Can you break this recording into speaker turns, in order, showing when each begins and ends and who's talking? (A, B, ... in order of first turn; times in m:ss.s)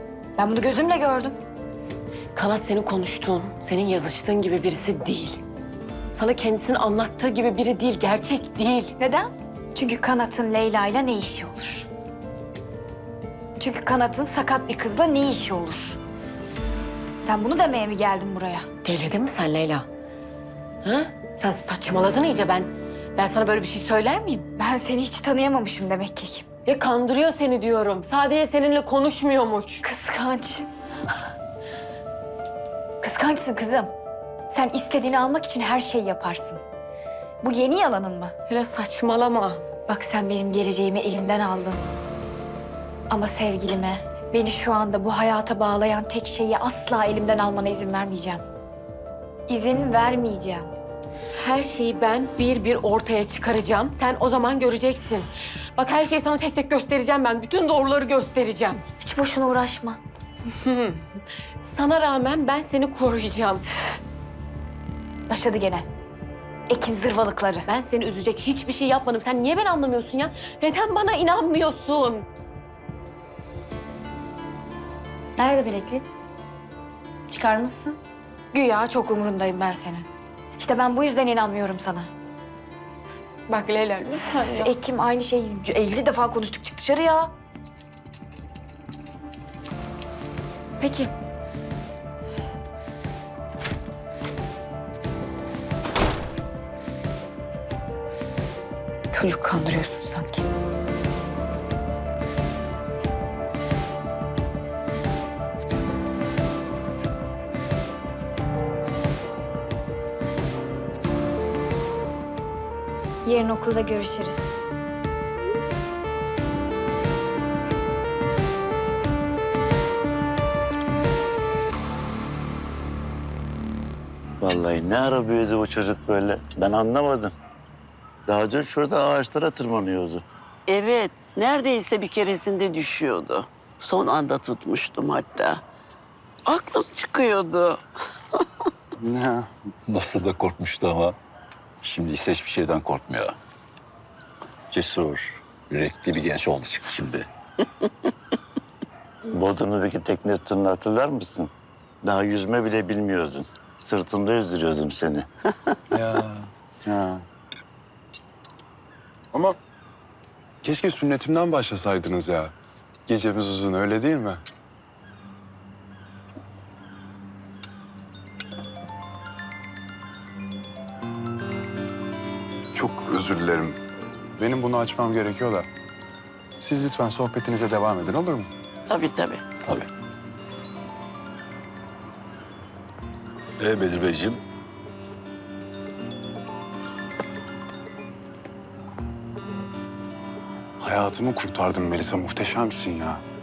0:00.4-0:01.4 A
0:02.3-0:05.4 B
0:06.1-0:08.9 B
0:09.0-0:11.9 A
0:13.6-0:16.0 A
0:17.2-0:18.7 A
0:18.8-0:19.9 B
0:20.8-0:24.5 B
0:24.6-0:26.4 A
0:26.7-0:29.8 B
0:29.8-0:30.7 A
0:33.0-0:33.9 A
0:34.5-0:36.6 A
0:37.4-0:38.3 A
0:38.5-0:39.6 B
0:39.9-0:41.8 A
0:43.1-0:48.4 A
0:49.5-0:50.7 A
0:51.3-0:58.8 B
0:59.0-1:00.0 A
1:00.6-1:01.1 B
1:01.6-1:03.7 B
1:05.3-1:05.9 A
1:06.7-1:07.7 A
1:07.7-1:12.3 B
1:15.4-1:16.0 A
1:17.3-1:18.0 A
1:18.5-1:20.1 A
1:20.6-1:22.1 A
1:23.5-1:24.6 B
1:24.5-1:27.3 A
1:30.8-1:31.1 B
1:39.1-1:40.4 B
1:53.2-1:54.6 A
2:04.4-2:07.3 C
2:08.3-2:10.2 C
2:10.7-2:15.6 D
2:16.5-2:17.8 D
2:19.0-2:19.5 E
2:19.9-2:21.2 F
2:21.8-2:23.4 F
2:24.7-2:27.3 F
2:29.3-2:31.5 C
2:32.0-2:35.3 C
2:35.9-2:37.2 E
2:40.6-2:42.5 E
2:43.1-2:44.4 E
2:52.7-2:53.8 E
2:54.4-2:55.7 E
2:56.6-2:58.5 E
2:58.9-2:59.4 D
3:03.6-3:04.4 F
3:10.8-3:13.2 E